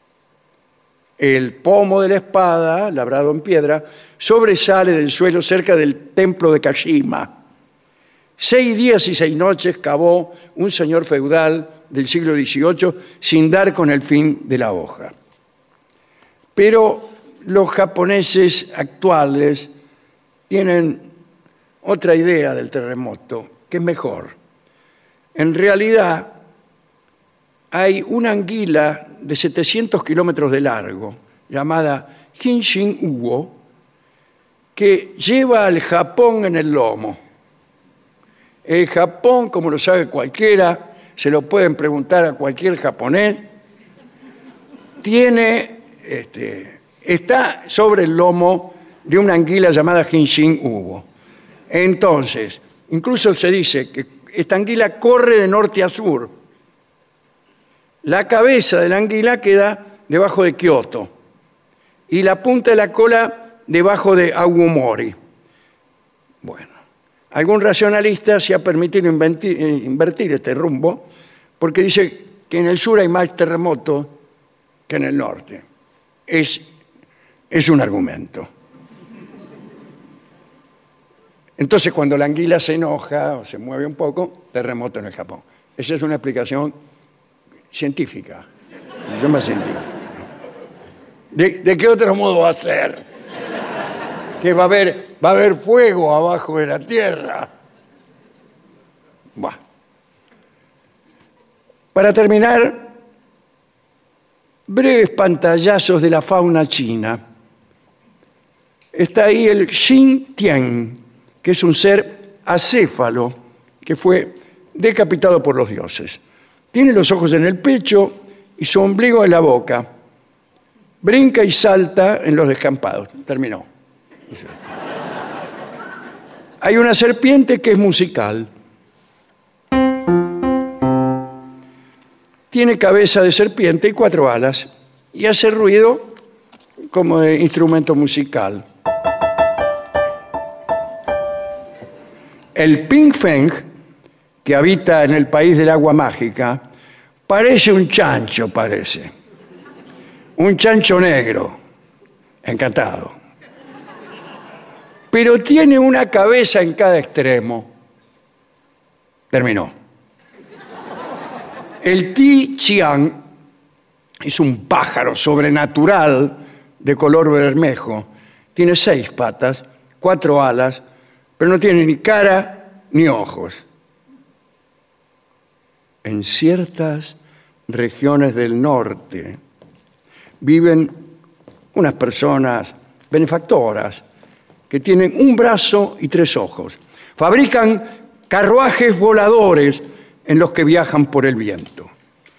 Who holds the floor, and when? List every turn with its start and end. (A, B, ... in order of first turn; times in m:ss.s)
0:01.2-0:07.3 A
0:08.4-0:15.1 A
0:16.5-0:19.7 A
0:20.5-0:21.1 A
0:21.8-0:24.4 A
0:25.3-0:26.4 A
0:27.7-0:33.6 A
0:34.7-0:37.2 A
0:38.6-0:43.5 A
0:45.0-0:51.1 A
0:51.7-0:56.3 A
0:58.0-1:01.1 A
1:02.1-1:05.2 A
1:06.4-1:06.7 A
1:07.3-1:11.1 A
1:11.6-1:14.2 A
1:14.9-1:15.6 A
1:16.3-1:16.6 A
1:17.5-1:18.5 A
1:21.6-1:26.7 A
1:27.7-1:28.4 A
1:29.1-1:30.2 A
1:31.3-1:33.0 A
1:34.4-1:37.5 A
1:41.9-1:42.9 A
1:44.7-1:47.2 A
1:48.9-1:56.2 A
1:56.7-1:59.9 A
2:01.0-2:03.7 A
2:06.6-2:08.5 A
2:12.5-2:16.1 A
2:16.9-2:18.6 A
2:22.5-2:23.7 A
2:24.4-2:26.6 A
2:27.3-2:29.1 A
2:30.4-2:31.6 A
2:32.4-2:33.1 A
2:35.1-2:37.7 A
2:39.3-2:39.7 A
2:41.8-2:43.2 A
2:44.2-2:50.8 A
2:51.4-2:53.6 A
2:56.0-2:59.4 A
3:00.4-3:01.0 A
3:01.7-3:04.0 A
3:04.7-3:11.9 A